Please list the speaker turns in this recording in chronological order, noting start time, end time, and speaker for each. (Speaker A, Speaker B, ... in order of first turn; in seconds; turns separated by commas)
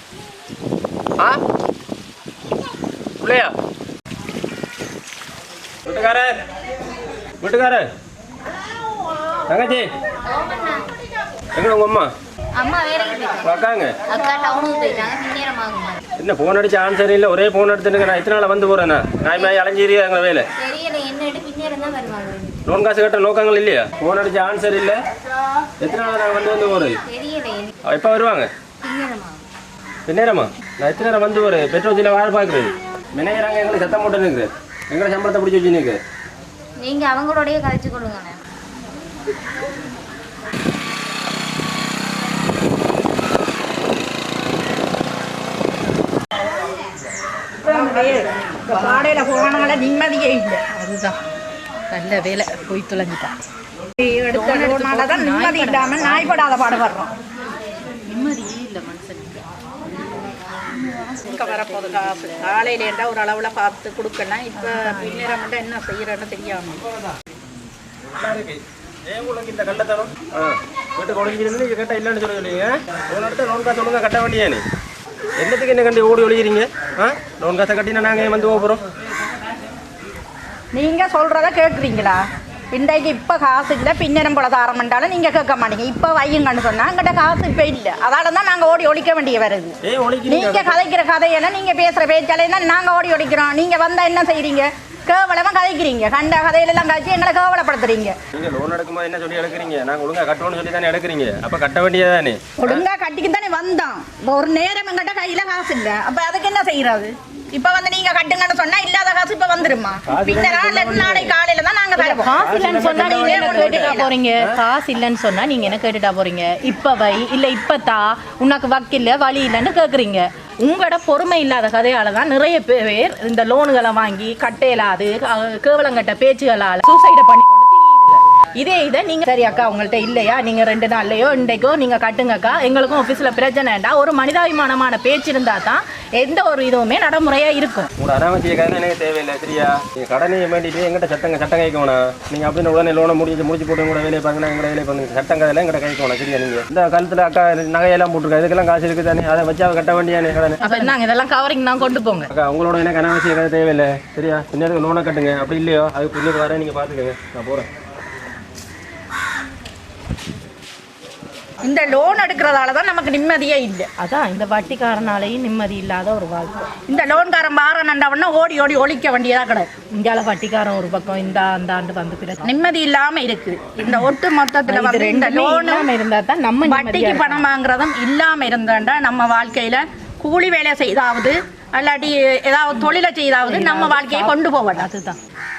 Speaker A: 3.2-3.5, Speaker A: 5.8-6.4, Speaker A: 7.4-7.9, Speaker A: 9.5-9.9, Speaker B: 10.2-10.9, Speaker A: 11.6-12.1, Speaker B: 12.5-13.5, Speaker A: 13.4-13.9, Speaker B: 14.1-16.0, Speaker A: 16.2-20.5, Speaker B: 20.6-22.6, Speaker A: 22.6-25.0, Speaker A: 25.8-27.0, Speaker B: 27.1-27.7, Speaker A: 27.8-28.5, Speaker B: 28.8-29.4, Speaker A: 30.1-36.0, Speaker B: 36.8-38.4, Speaker C: 47.6-50.6, Speaker D: 50.7-51.1, Speaker D: 51.9-53.3, Speaker C: 54.0-57.1, Speaker D: 54.3-56.4, Speaker D: 58.0-59.4, Speaker D: 60.8-62.4, Speaker C: 61.2-66.8, Speaker D: 64.5-65.3, Speaker A: 68.2-74.6, Speaker A: 75.4-78.8, Speaker C: 80.7-89.8, Speaker A: 89.8-90.8, Speaker C: 90.3-98.2, Speaker A: 98.3-102.8, Speaker C: 102.6-114.1, Speaker A: 110.1-111.3, Speaker D: 112.0-137.9, Speaker A: 112.4-114.6, Speaker A: 138.0-150.6, Speaker D: 150.6-152.3, Speaker A: 152.3-157.7, Speaker C: 161.6-163.9, Speaker D: 164.0-166.7, Speaker C: 166.9-169.7, Speaker D: 169.9-172.5, Speaker C: 172.4-175.9, Speaker D: 173.8-174.1, Speaker D: 174.7-177.5, Speaker C: 176.7-184.9, Speaker D: 183.4-185.2